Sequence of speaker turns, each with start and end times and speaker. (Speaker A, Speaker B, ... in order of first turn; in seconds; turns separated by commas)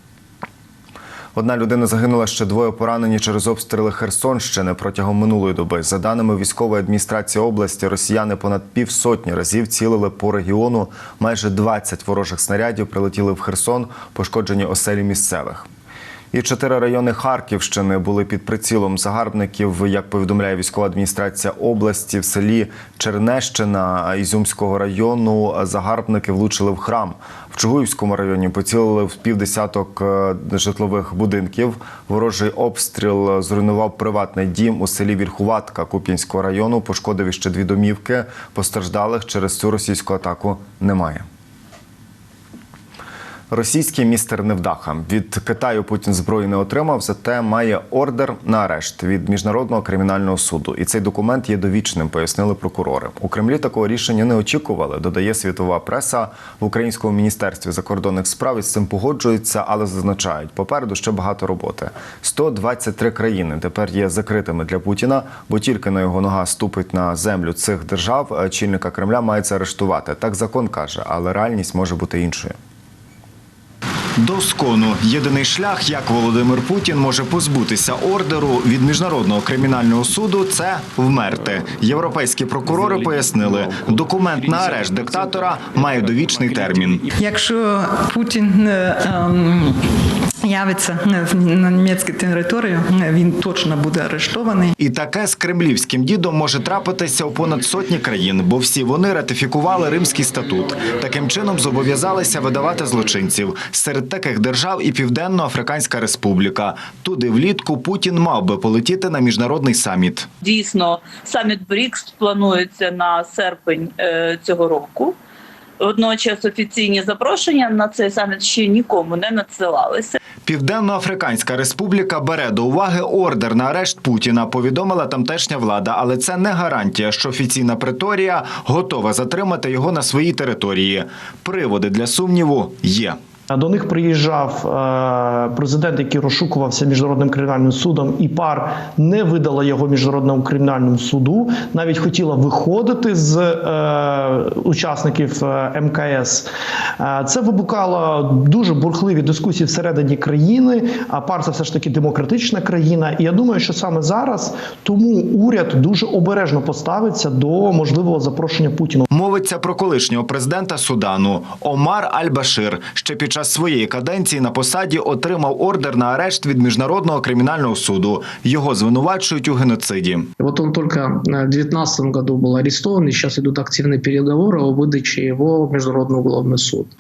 Speaker A: 1.4-15.7, Speaker A: 16.3-41.2, Speaker A: 43.5-72.6, Speaker A: 74.2-87.0, Speaker B: 87.2-89.8, Speaker B: 90.4-94.7, Speaker A: 94.8-110.3, Speaker C: 110.4-115.2, Speaker C: 115.8-120.2, Speaker A: 120.5-133.2, Speaker D: 133.5-146.5, Speaker D: 147.0-159.1, Speaker A: 159.1-170.3, Speaker E: 170.4-176.9